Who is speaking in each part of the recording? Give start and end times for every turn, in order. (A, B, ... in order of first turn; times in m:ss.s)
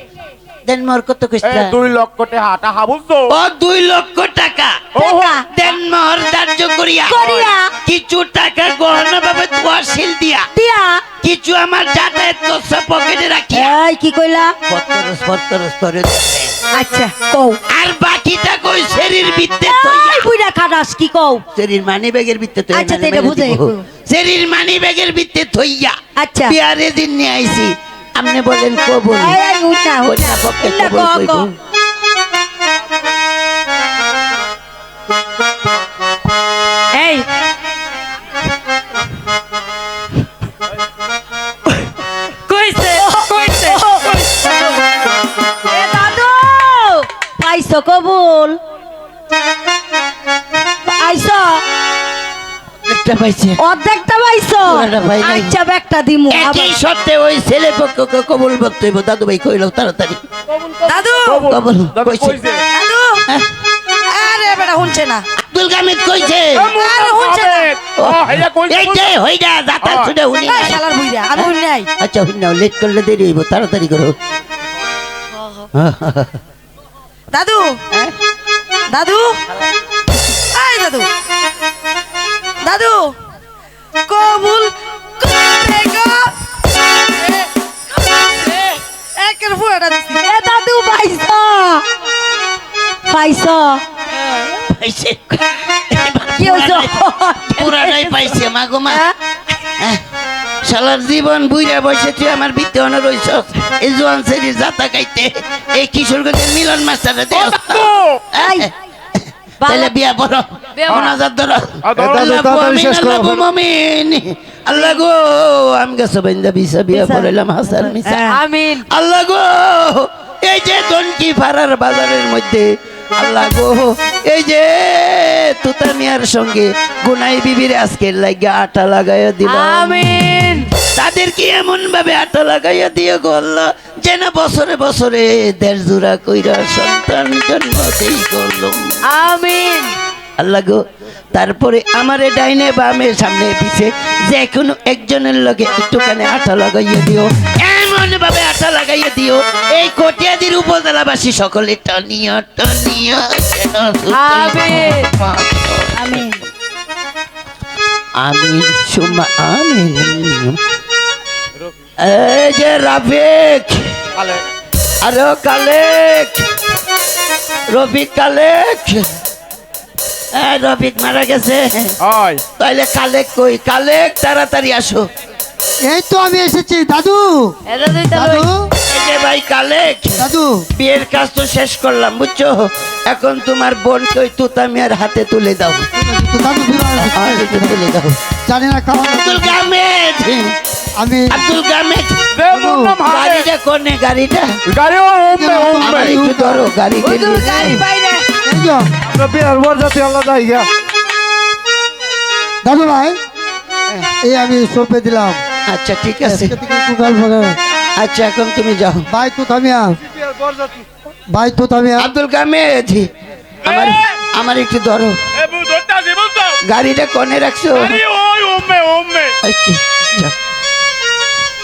0:00.6-0:01.8 A
0:01.4-0:03.3 B
0:03.3-0:04.9 A
0:05.0-0:05.4 B
0:05.0-0:05.4 C
0:05.5-0:07.2 A
0:07.1-0:07.7 C
0:07.2-0:07.5 B
0:07.8-0:10.4 A
0:10.5-0:11.0 C
0:11.2-0:13.7 A
0:13.5-0:14.5 C
0:14.7-0:16.5 A
0:16.7-0:17.6 C
0:17.7-0:20.3 A
0:19.6-0:21.4 C
0:21.5-0:26.0 A
0:22.7-0:23.8 C
0:26.2-0:26.6 C
0:26.5-0:29.4 A
0:29.2-0:31.5 C
0:30.0-0:31.5 A
0:36.9-0:37.2 D
0:42.5-0:43.8 D
0:42.8-0:44.1 C
0:45.6-0:48.6 C
0:50.8-0:51.6 C
0:52.8-0:53.6 A
0:53.6-0:56.7 C
0:54.6-0:55.5 A
0:56.3-1:00.2 A
1:00.5-1:02.6 B
1:00.8-1:01.4 D
1:01.4-1:02.4 A
1:02.7-1:03.2 D
1:04.1-1:05.2 D
1:05.4-1:06.7 A
1:06.4-1:09.1 B
1:06.8-1:07.7 D
1:08.0-1:10.8 A
1:09.8-1:10.1 B
1:10.5-1:11.9 D
1:11.3-1:14.1 A
1:15.7-1:16.4 A
1:17.3-1:17.8 D
1:18.9-1:19.4 D
1:20.5-1:21.1 D
1:22.6-1:23.1 D
1:24.1-1:26.3 D
1:27.2-1:27.5 D
1:28.2-1:30.2 D
1:30.1-1:31.8 C
1:33.1-1:33.8 C
1:34.4-1:39.0 A
1:36.4-1:38.3 C
1:40.6-2:10.2 A
1:47.3-1:48.2 B
1:48.4-1:48.7 C
1:49.6-1:49.9 C
1:50.9-1:51.1 B
1:51.8-1:52.3 B
1:52.0-1:53.4 E
1:56.9-1:58.4 C
1:58.2-1:58.8 D
2:09.4-2:10.7 D
2:10.8-2:18.9 A
2:19.1-2:19.9 D
2:20.4-2:20.8 A
2:21.3-2:36.2 A
2:34.1-2:35.1 D
2:35.9-2:36.4 C
2:38.2-2:40.6 A
2:42.0-2:44.0 A
2:44.2-2:44.4 B
2:45.0-2:46.4 A
2:47.7-2:49.0 A
2:50.3-2:52.0 A
2:52.0-2:52.4 B
2:52.6-2:55.1 A
2:55.8-2:57.5 E
2:57.7-2:58.5 D
2:58.1-2:58.7 E
2:58.8-3:05.8 A
3:00.2-3:00.7 E
3:06.0-3:07.6 E
3:07.0-3:08.2 A
3:08.5-3:09.6 E
3:09.2-3:10.5 A
3:11.0-3:11.4 E
3:11.3-3:12.3 A
3:12.3-3:13.5 B
3:12.5-3:13.0 E
3:13.0-3:14.5 A
3:14.7-3:16.2 B
3:15.3-3:16.6 E
3:15.7-3:17.8 A
3:17.0-3:18.2 C
3:17.5-3:17.8 E
3:18.4-3:20.7 E
3:22.6-3:23.2 E
3:24.2-3:25.4 E
3:25.7-3:26.6 A
3:26.2-3:27.6 E
3:28.0-3:29.0 A
3:29.1-3:30.0 E
3:31.3-3:32.1 E
3:32.0-3:33.1 A
3:33.6-3:35.1 A
3:33.6-3:34.1 B
3:35.4-3:36.6 B
3:36.6-3:38.0 A
3:37.7-3:39.3 B
3:39.4-3:40.3 A